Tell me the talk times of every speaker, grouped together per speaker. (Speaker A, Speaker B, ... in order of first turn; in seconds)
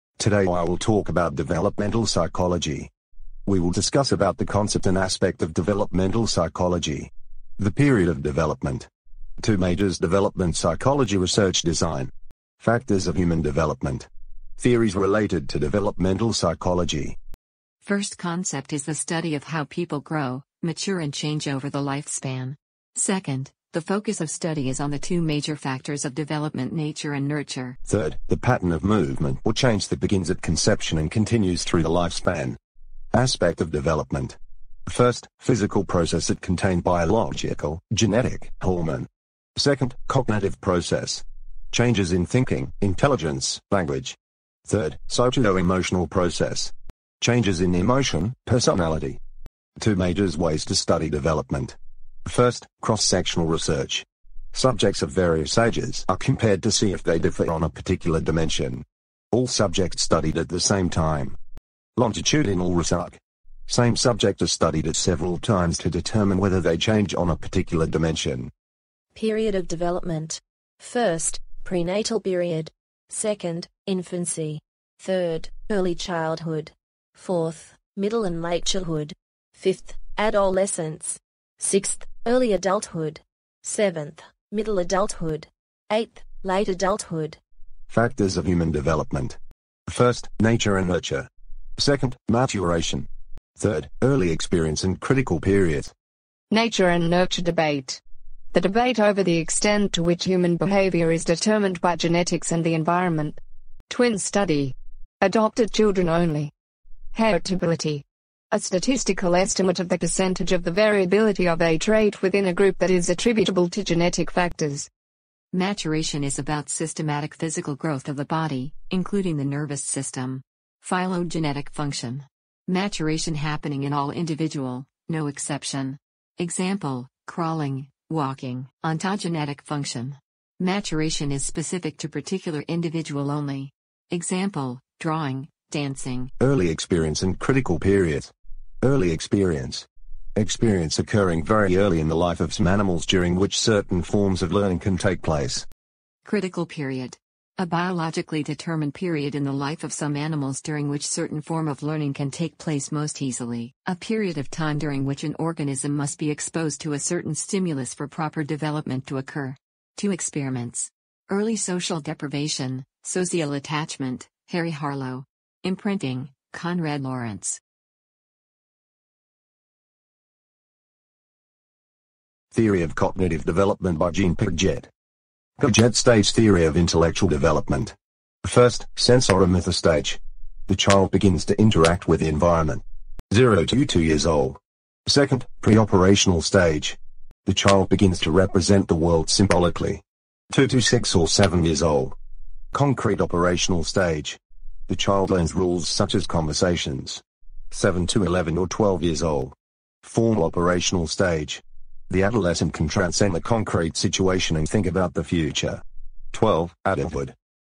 Speaker A: 0.2-2.9, 3.5-8.9, 9.4-17.2, 27.9-32.6, 33.1-44.2, 44.7-49.2, 49.8-61.4, 62.0-68.5, 87.9-93.1, 93.6-95.9, 136.4-145.7, 172.5-174.9, 175.6-192.2, 192.7-207.3
Speaker B: 17.8-27.8, 115.5-136.3, 146.2-167.6
Speaker C: 69.2-87.4
Speaker D: 96.5-98.0, 98.5-106.5, 107.1-114.9